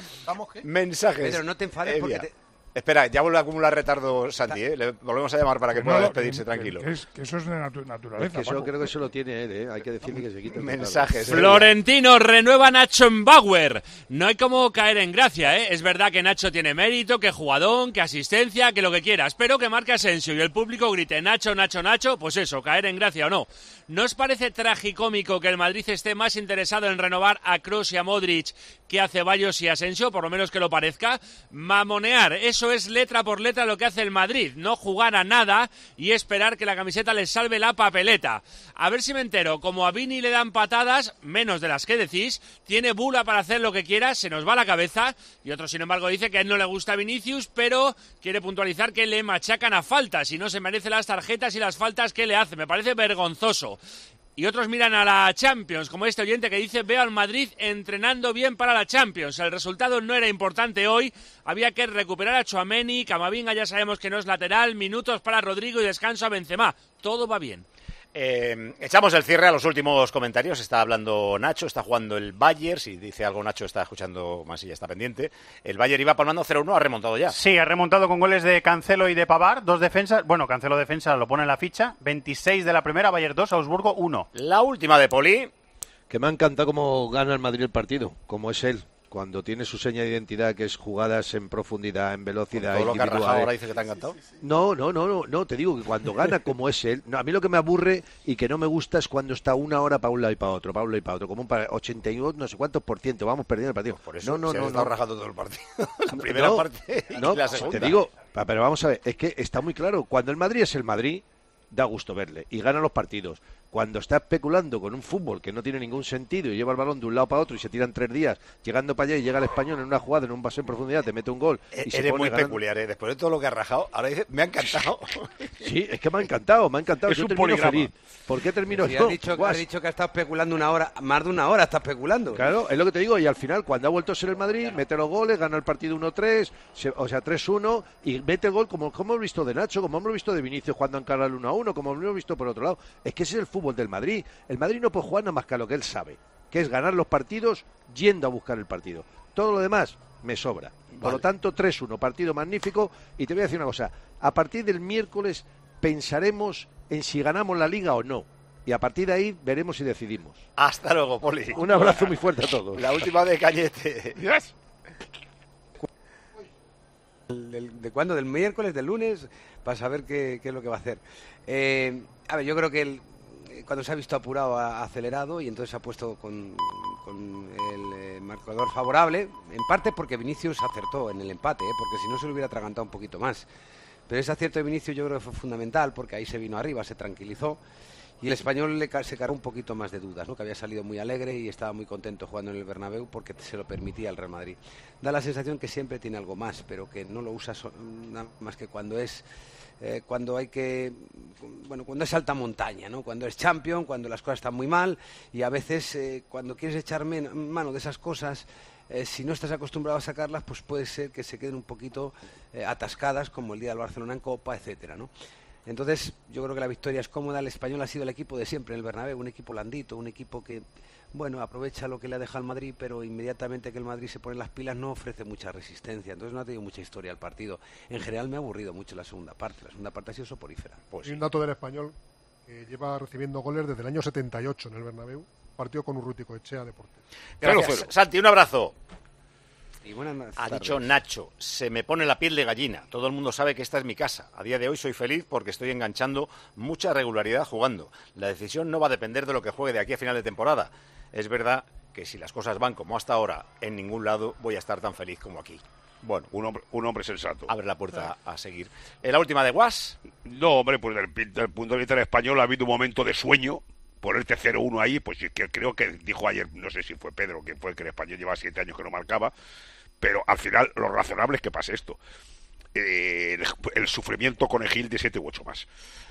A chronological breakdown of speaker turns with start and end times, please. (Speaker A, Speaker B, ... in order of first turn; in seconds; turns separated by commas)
Speaker A: 0.6-6.9, Speaker B: 1.2-2.3, Speaker C: 5.7-8.7, Speaker D: 8.2-11.7, Speaker A: 10.5-11.8, Speaker E: 11.3-53.8, Speaker E: 54.4-67.6, Speaker A: 68.1-77.4, Speaker F: 77.3-84.2, Speaker A: 84.3-85.5, Speaker D: 86.1-93.5, Speaker A: 92.5-94.2, Speaker D: 94.4-104.9, Speaker A: 104.0-108.1, Speaker D: 106.1-122.6, Speaker A: 121.7-125.5, Speaker D: 125.6-129.7, Speaker G: 127.1-127.9, Speaker B: 128.7-132.5, Speaker D: 132.3-160.4, Speaker A: 151.0-151.2, Speaker A: 160.6-162.2, Speaker D: 161.5-163.1, Speaker A: 162.7-164.2, Speaker G: 164.2-164.5, Speaker B: 167.3-183.5, Speaker B: 184.1-187.6, Speaker B: 188.2-199.2, Speaker B: 199.8-215.1, Speaker B: 215.7-230.8, Speaker A: 230.9-231.2, Speaker H: 231.0-231.9, Speaker H: 232.5-237.0, Speaker A: 237.4-238.7, Speaker G: 237.4-237.9, Speaker B: 239.8-240.9, Speaker A: 240.4-256.3, Speaker G: 256.3-257.5, Speaker A: 257.5-260.0, Speaker G: 260.1-269.3, Speaker G: 270.0-272.0, Speaker G: 272.7-275.7